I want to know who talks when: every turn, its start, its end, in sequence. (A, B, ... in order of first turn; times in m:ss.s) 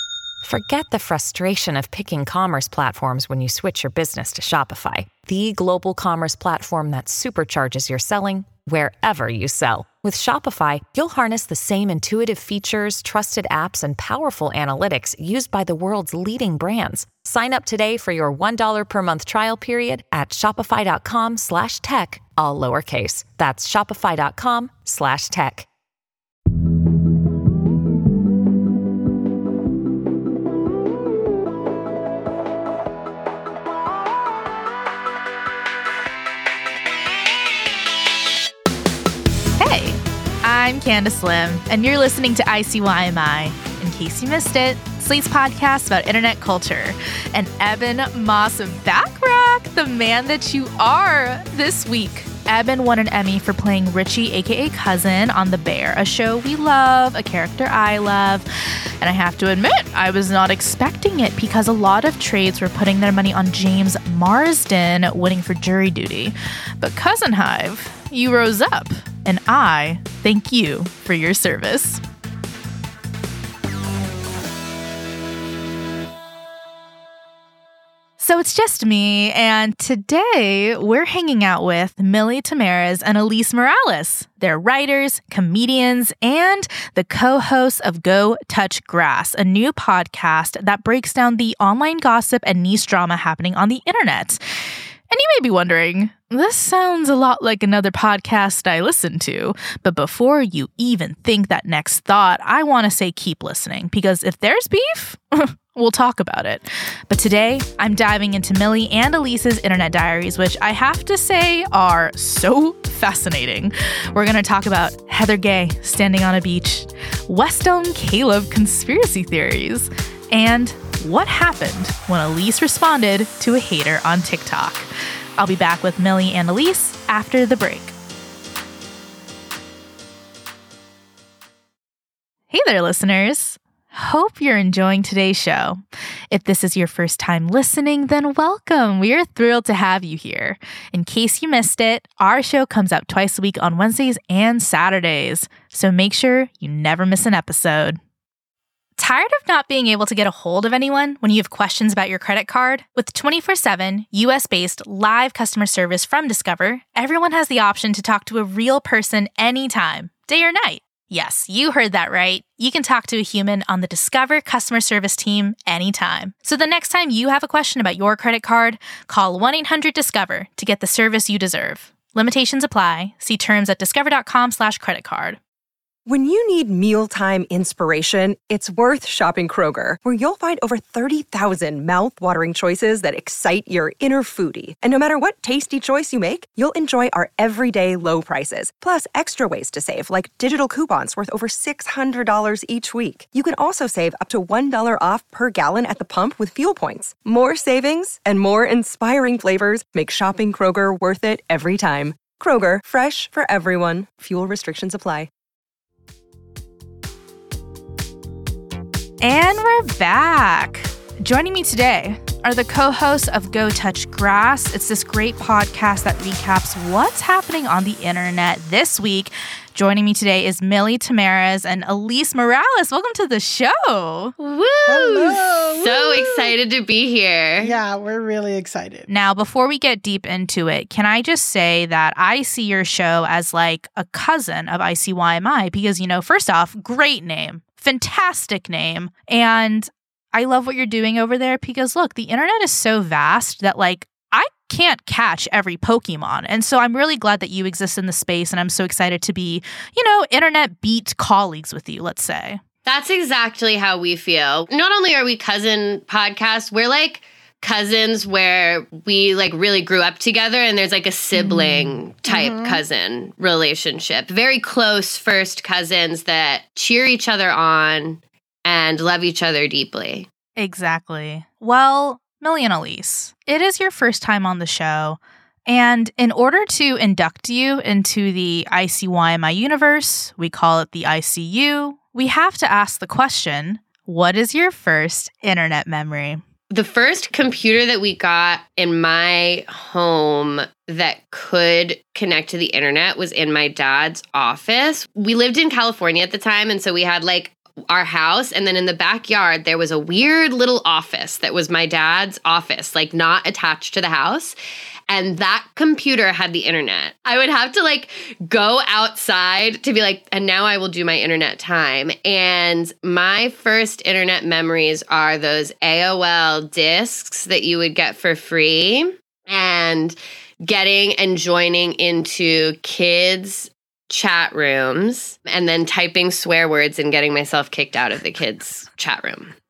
0:00.4-0:25.7 A
0:39.6-0:58.5 B
0:59.0-1:12.0 B
1:18.2-1:34.4 B
1:35.1-2:07.9 B
2:12.5-2:28.0 B
2:29.0-2:55.4 B
2:56.1-3:25.3 C
3:29.2-3:44.3 B
3:44.4-3:47.8 D
3:44.9-3:46.5 E
3:47.6-3:49.1 E
3:49.1-4:12.6 B
4:12.9-4:30.3 D
4:21.3-4:22.0 B
4:22.3-4:22.8 E
4:30.6-4:46.4 B
4:46.7-5:04.6 D
5:05.1-5:29.6 D